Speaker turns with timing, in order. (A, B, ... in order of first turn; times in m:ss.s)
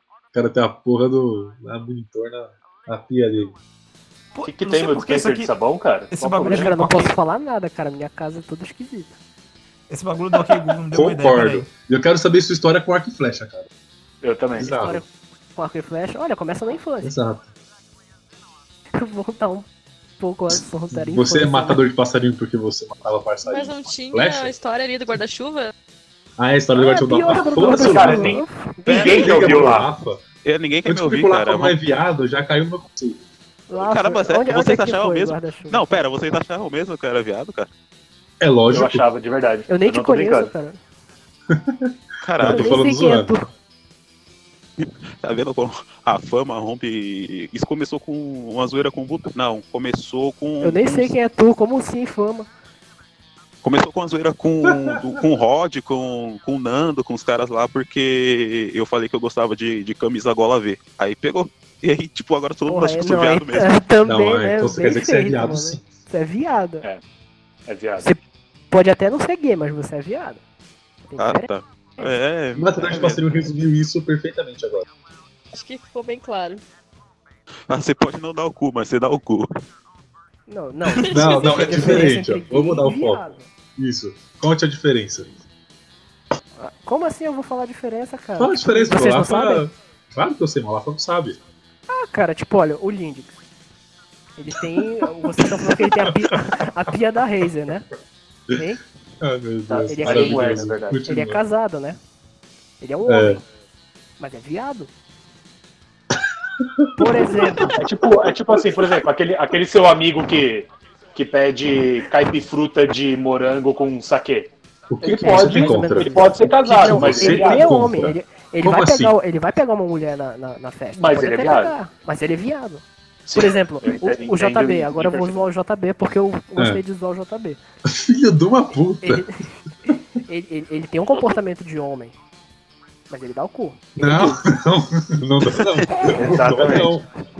0:00.3-0:03.6 A
0:04.3-0:05.5 B
0:04.4-0:06.7 C
0:06.1-0:07.1 B
0:06.4-0:09.1 D
0:09.9-0:11.7 B
0:10.9-0:13.7 A
0:14.2-0:14.7 C
0:14.6-0:15.0 A
0:14.6-0:17.1 D
0:17.0-0:17.5 A
0:19.0-0:19.6 D
0:20.2-0:21.8 D
0:20.6-0:24.5 A
0:23.4-0:25.7 E
0:26.4-0:28.4 A
0:26.7-0:29.2 D
0:27.4-0:29.9 C
0:28.9-0:29.6 F
0:28.9-0:30.2 A
0:30.4-0:31.8 F
0:30.8-0:33.2 A
0:33.7-0:35.9 D
0:33.7-0:37.7 F
0:38.4-0:39.0 A
0:38.7-0:40.5 C
0:39.7-0:40.8 D
0:41.5-0:43.3 A
0:42.2-0:42.9 F
0:42.4-0:43.5 D
0:44.8-0:51.1 F
0:50.6-0:52.5 D
0:53.6-1:03.7 F
0:54.6-0:55.1 A
1:02.7-1:06.8 D
1:04.0-1:05.8 A
1:07.7-1:08.1 C
1:08.7-1:10.4 D
1:11.1-1:11.5 D
1:11.2-1:13.2 F
1:12.5-1:14.8 A
1:15.5-1:16.6 E
1:17.7-1:19.5 F
1:20.5-1:23.5 D
1:21.0-1:21.7 E
1:21.0-1:23.2 A
1:23.8-1:25.3 A
1:26.6-1:29.6 D
1:28.4-1:31.4 A
1:31.9-1:33.3 D
1:34.4-1:37.9 D
1:35.4-1:36.4 A
1:38.5-1:38.8 D
1:39.2-1:41.4 A
1:39.7-1:41.0 C
1:39.9-1:40.5 D
1:41.0-1:42.0 D
1:42.8-1:43.4 D
1:43.1-1:43.4 A
1:44.2-1:44.9 D
1:46.6-1:47.7 A
1:47.0-1:47.7 D
1:47.7-1:57.7 C
1:54.9-1:59.1 A
1:55.2-2:02.8 D
2:01.0-2:01.7 C
2:03.2-2:05.4 C
2:03.3-2:07.6 D
2:07.9-2:09.2 A
2:09.0-2:09.4 D
2:10.2-2:12.1 D
2:13.1-2:14.4 D
2:14.0-2:17.1 A
2:15.5-2:15.9 F
2:16.1-2:16.9 C